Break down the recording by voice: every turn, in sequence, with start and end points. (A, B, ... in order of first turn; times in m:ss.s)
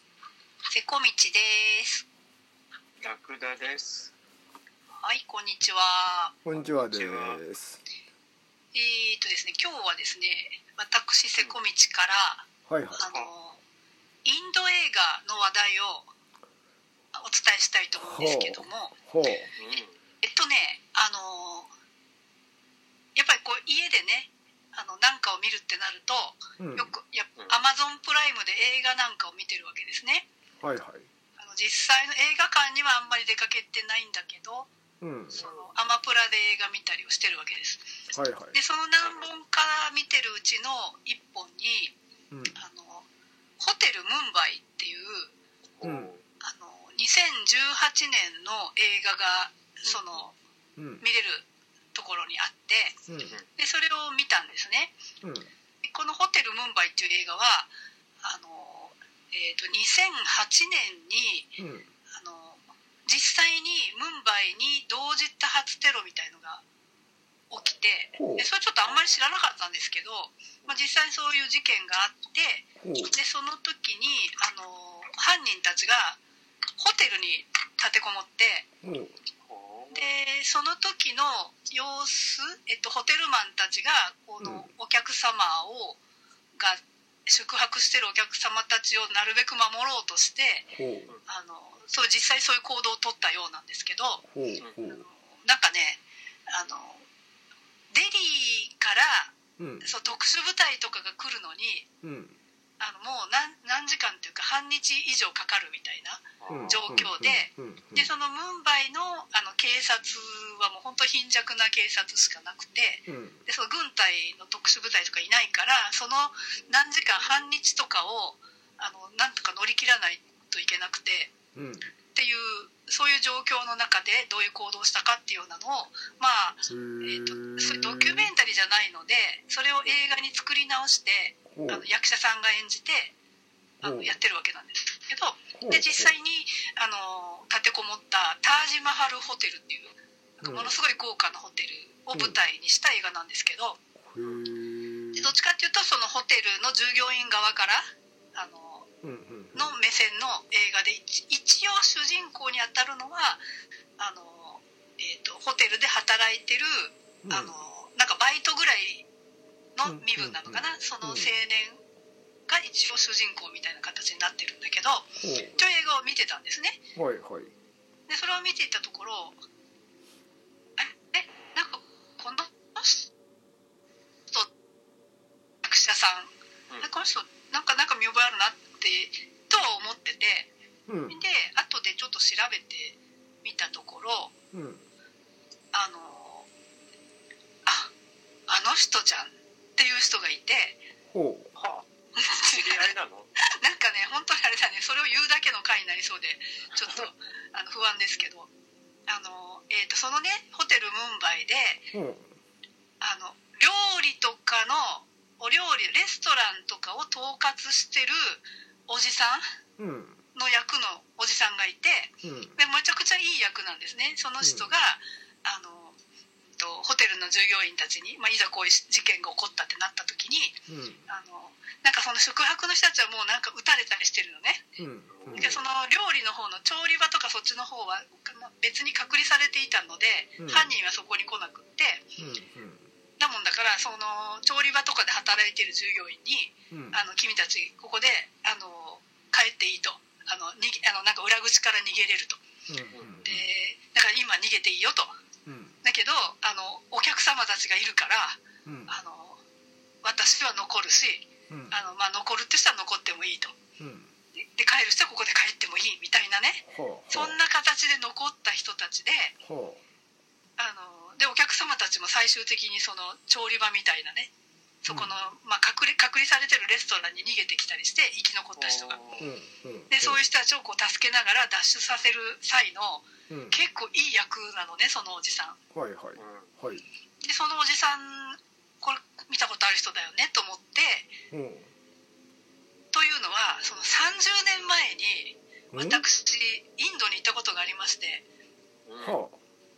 0:00.7-0:02.0 A
0:03.0-0:04.1 B
0:05.0-0:06.3 A
0:06.4-0:07.8 C
0:06.5-0:07.4 B
0:08.7-0:13.6 A
0:12.7-0:13.0 C
0:13.0-0:13.3 B
0:14.2-0:16.1 A
0:17.1-0:19.0 A
0:18.0-0:19.5 C
0:19.6-0:20.0 B
0:20.2-0:21.7 A
0:23.1-0:30.3 A
0:26.6-0:26.9 C
0:30.6-0:31.1 C
0:31.4-0:34.7 A
0:35.0-0:35.4 C
0:35.3-0:37.9 A
0:35.4-0:35.7 B
0:38.1-0:38.6 C
0:38.5-0:41.9 A
0:42.3-0:42.6 C
0:42.5-0:43.0 A
0:43.6-0:45.3 A
0:45.8-0:46.2 B
0:45.8-0:46.1 C
0:46.4-0:50.4 A
0:49.8-0:50.2 B
0:50.8-0:51.0 C
0:51.0-0:53.0 A
0:53.1-0:53.4 C
0:53.6-0:54.9 A
0:55.2-0:55.5 C
0:55.8-1:01.6 A
1:01.6-1:01.9 C
1:02.1-1:06.6 A
1:07.5-1:16.2 A
1:08.2-1:08.4 C
1:08.8-1:09.1 B
1:12.8-1:13.1 C
1:16.8-1:18.7 A
1:18.8-1:19.1 C
1:19.4-1:20.1 B
1:19.9-1:26.0 A
1:24.4-1:24.6 C
1:26.6-1:30.7 A
1:30.7-1:31.1 C
1:31.3-1:34.2 A
1:34.3-1:35.0 C
1:34.9-1:37.0 A
1:37.9-1:41.9 A
1:39.6-1:39.8 C
1:42.0-1:42.4 C
1:42.8-2:01.3 A
1:46.4-1:46.8 B
1:46.5-1:48.1 C
1:53.1-1:53.4 C
2:01.5-2:01.9 C
2:02.1-2:13.1 A
2:06.7-2:08.3 C
2:11.5-2:11.8 C
2:13.8-2:23.8 A
2:13.8-2:14.1 C
2:15.6-2:16.1 C
2:20.4-2:20.7 C
2:24.0-2:25.3 C
2:25.1-2:27.8 A
2:28.3-2:28.9 A
2:29.0-2:29.7 C
2:29.5-2:33.4 A
2:34.0-2:39.1 A
2:37.2-2:37.6 C
2:39.7-2:41.8 A
2:39.8-2:41.3 C
2:42.5-2:46.8 A
2:45.2-2:45.5 C
2:47.0-2:47.5 C
2:48.1-2:49.4 A
2:50.8-2:53.1 A
2:55.6-3:00.5 A
3:00.9-3:01.1 C
3:01.1-3:04.3 A
3:04.5-3:04.8 C
3:05.7-3:06.5 A
3:08.5-3:10.8 A
3:11.1-3:11.5 C
3:11.6-3:11.8 B
3:12.2-3:12.9 A
3:12.5-3:13.3 B
3:13.6-3:18.5 A
3:19.1-3:21.9 A
3:21.9-3:22.3 C
3:23.0-3:29.4 A
3:29.8-3:30.2 C
3:30.3-3:36.0 A
3:32.2-3:32.5 C
3:34.4-3:34.7 C
3:36.6-3:44.6 A
3:40.7-3:41.0 C
3:44.8-3:45.6 C
3:45.1-3:45.6 B
3:45.3-3:52.1 A
3:50.4-3:50.7 C
3:52.2-3:52.8 C
3:53.2-4:02.4 A
3:56.7-3:57.0 C
4:02.7-4:03.4 C
4:02.9-4:03.2 B
4:03.2-4:05.1 A
4:05.4-4:05.8 C
4:05.8-4:09.4 A
4:08.6-4:08.9 C
4:10.0-4:13.6 A
4:13.8-4:14.1 C
4:14.4-4:19.3 A
4:16.7-4:17.4 C
4:19.4-4:19.8 C
4:20.6-4:24.3 A
4:24.8-4:29.0 A
4:28.6-4:29.3 B
4:29.2-4:30.2 C
4:29.9-4:35.6 A
4:33.3-4:33.6 C
4:35.7-4:36.8 C
4:36.2-4:36.5 B
4:37.2-4:41.1 A
4:41.3-4:41.7 C
4:42.9-4:48.2 A
4:45.7-4:46.0 C
4:48.8-4:49.2 B
4:49.0-4:49.4 C